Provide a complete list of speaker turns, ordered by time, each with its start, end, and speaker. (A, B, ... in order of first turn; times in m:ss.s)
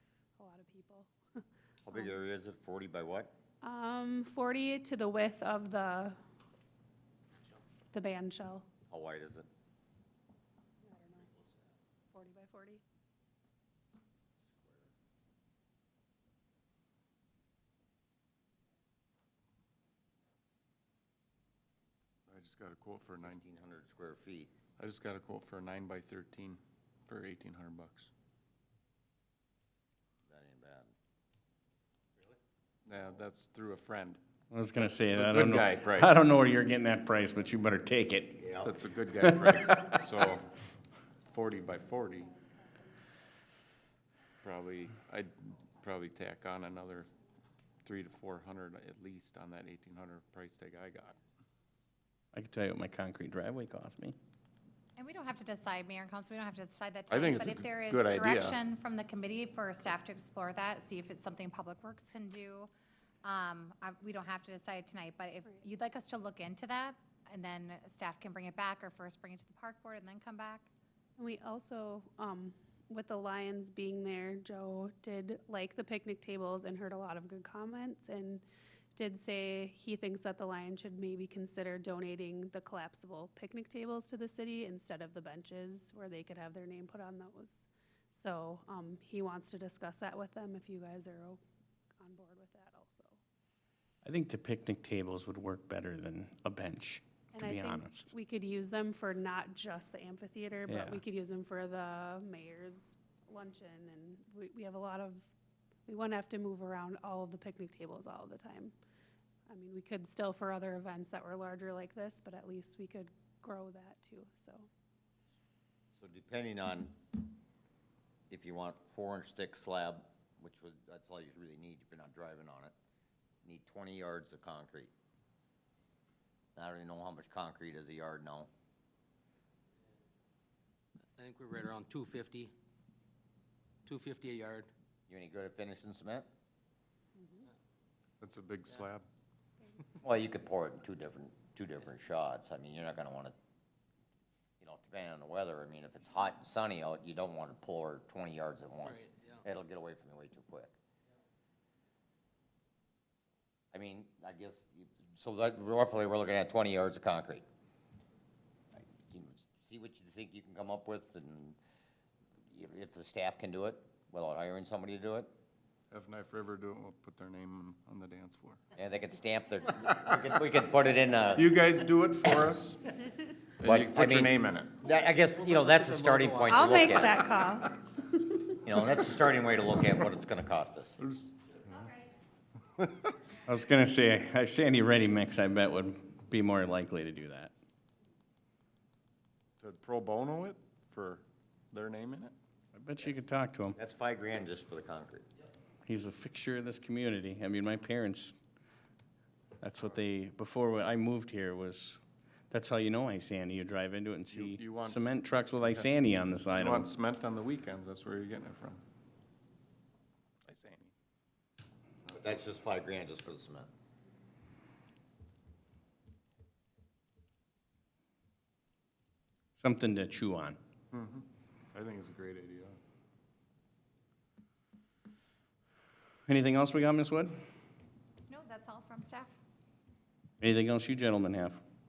0:00.4-0:02.1 A
0:01.8-0:03.3 B
0:03.6-0:06.2 A
0:07.9-0:08.7 A
0:08.9-0:09.5 B
0:10.8-0:11.3 A
0:12.1-0:12.8 A
0:22.3-0:23.4 C
0:23.2-0:24.5 B
0:24.8-0:28.1 C
0:30.3-0:30.9 B
0:32.9-0:34.2 C
0:34.5-0:38.4 D
0:35.1-0:36.3 C
0:38.4-0:38.7 B
0:38.6-0:40.5 C
0:39.2-0:40.0 D
0:41.3-0:42.4 C
0:44.4-0:47.1 C
0:47.8-0:51.2 C
0:52.3-0:54.2 D
0:55.0-1:02.7 E
0:57.1-0:58.6 C
1:03.2-1:10.7 E
1:11.2-1:18.4 A
1:19.0-1:31.4 A
1:32.0-1:33.2 A
1:34.0-1:38.1 D
1:37.3-1:45.3 A
1:40.7-1:41.0 D
1:45.9-1:48.7 A
1:49.5-1:54.7 A
1:56.0-1:57.0 B
1:58.3-2:02.7 B
2:03.4-2:04.9 B
2:06.6-2:08.5 B
2:11.2-2:12.5 F
2:13.9-2:14.7 F
2:15.1-2:16.3 B
2:17.2-2:17.5 A
2:18.2-2:19.1 C
2:20.0-2:23.4 B
2:24.6-2:30.8 B
2:28.8-2:29.4 F
2:33.7-2:37.4 B
2:38.8-2:41.6 B
2:42.5-2:45.3 B
2:45.9-2:48.6 C
2:48.8-2:51.5 B
2:51.4-2:52.8 C
2:53.6-2:54.8 C
2:53.6-2:57.3 B
2:56.5-2:58.5 A
2:58.6-3:01.0 B
3:01.0-3:01.3 C
3:02.8-3:03.1 C
3:03.5-3:07.5 D
3:09.6-3:12.3 C
3:12.7-3:13.8 D
3:13.8-3:15.3 B
3:15.9-3:18.4 D
3:19.6-3:22.0 D
3:22.5-3:26.9 D
3:24.3-3:25.9 C
3:26.6-3:28.8 C
3:30.5-3:30.9 C
3:32.1-3:33.7 B
3:39.6-3:40.6 D
3:40.9-3:42.8 C
3:46.3-3:47.3 D
3:48.3-3:49.4 E
3:50.4-3:51.6 D